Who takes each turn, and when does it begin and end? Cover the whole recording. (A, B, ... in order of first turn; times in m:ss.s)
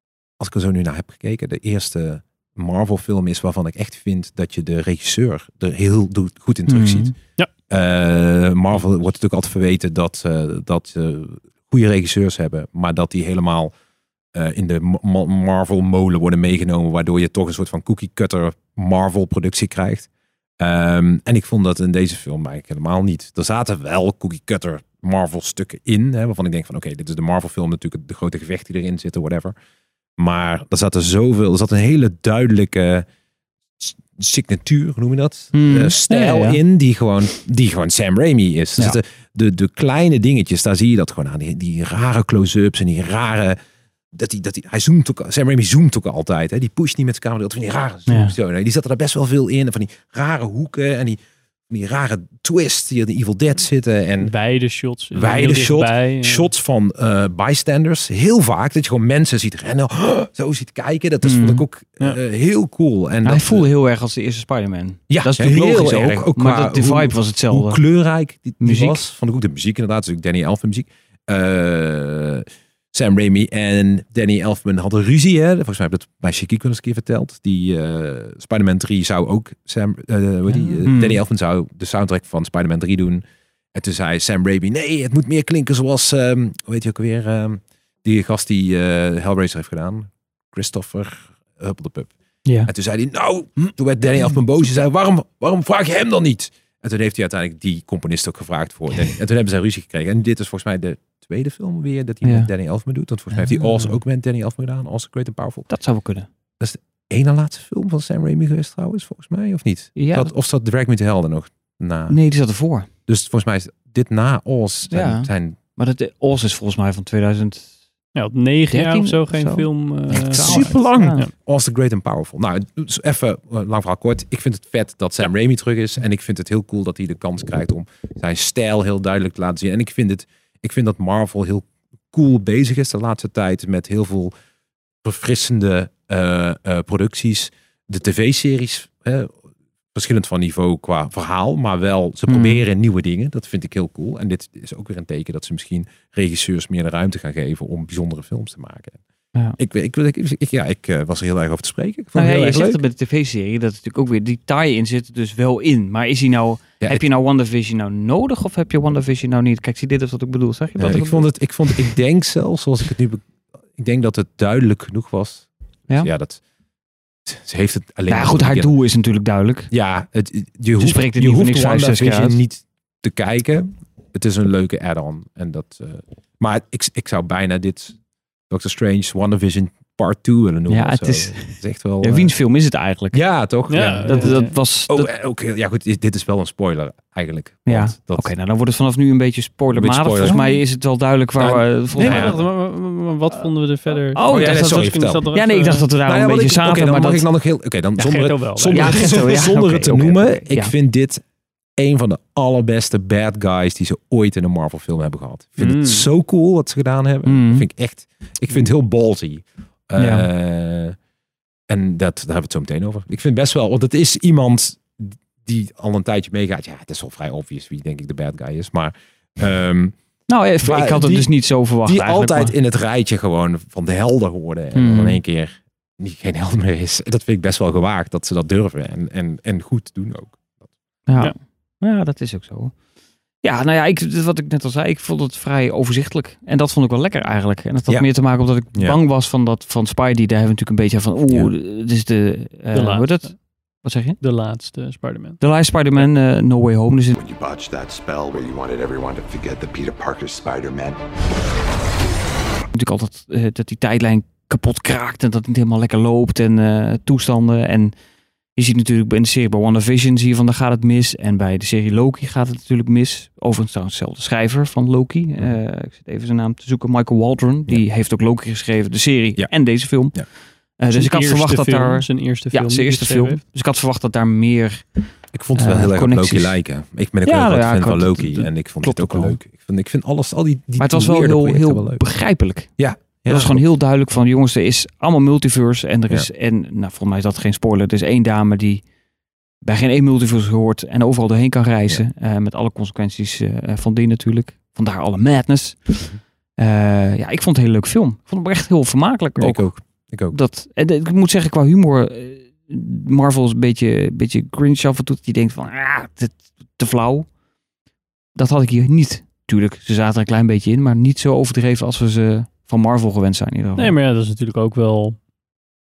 0:00.4-0:13.7 A
0:06.7-0:07.1 B
0:14.3-0:20.1 A
0:20.6-0:29.5 A
0:30.2-0:33.0 A
0:33.8-0:43.6 A
0:35.5-0:36.6 B
0:44.1-0:54.3 A
0:48.1-0:48.3 B
0:54.2-0:56.5 C
0:55.1-1:03.7 A
1:01.2-1:01.6 B
1:03.2-1:07.8 B
1:05.1-1:32.1 A
1:08.6-1:09.0 B
1:20.8-1:21.2 B
1:32.4-1:32.7 B
1:32.6-1:45.7 A
1:42.2-1:42.5 B
1:45.7-1:46.3 B
1:46.6-1:52.2 A
1:50.0-1:50.3 B
1:52.1-1:52.9 B
1:53.1-1:55.6 A
1:54.9-1:57.7 B
1:58.1-2:01.3 C
1:58.7-2:01.3 B
2:00.1-2:14.3 A
2:15.0-2:19.4 A
2:19.9-2:29.0 A
2:22.3-2:22.6 B
2:29.6-2:32.8 A
2:32.1-2:41.9 B
2:40.8-2:46.4 A
2:47.2-2:48.7 A
2:48.1-2:49.7 B
2:49.7-2:58.0 A
2:50.8-2:52.4 B
2:58.5-3:02.3 A
3:00.7-3:03.2 B
3:03.1-3:08.3 A
3:03.7-3:04.5 C
3:04.0-3:05.1 B
3:07.6-3:12.4 B
3:09.7-3:10.5 A
3:10.2-3:10.6 C
3:11.4-3:12.4 A
3:11.9-3:15.9 C
3:14.1-3:17.2 B
3:14.2-3:15.2 A
3:16.0-3:21.2 A
3:18.0-3:19.4 C
3:18.7-3:20.7 B
3:21.8-3:31.0 A
3:25.6-3:26.1 C
3:27.2-3:27.7 B
3:30.0-3:30.2 B
3:31.7-3:40.0 A
3:40.3-3:42.5 B
3:40.6-3:50.4 A
3:44.7-3:45.2 B
3:51.1-3:52.8 B
3:53.4-4:04.2 B
3:58.7-3:59.0 A
4:02.7-4:03.4 C
4:04.2-4:05.4 C
4:05.4-4:07.1 B
4:07.1-4:11.0 D
4:12.7-4:17.9 B
4:18.6-4:36.6 B
4:29.4-4:30.3 A
4:30.9-4:33.4 C
4:35.3-4:42.0 A
4:37.2-4:39.4 B
4:40.8-4:48.8 B
4:42.8-4:43.6 A
4:49.6-5:07.3 B
4:59.4-5:00.4 A
5:08.3-5:14.0 B
5:13.8-5:15.2 C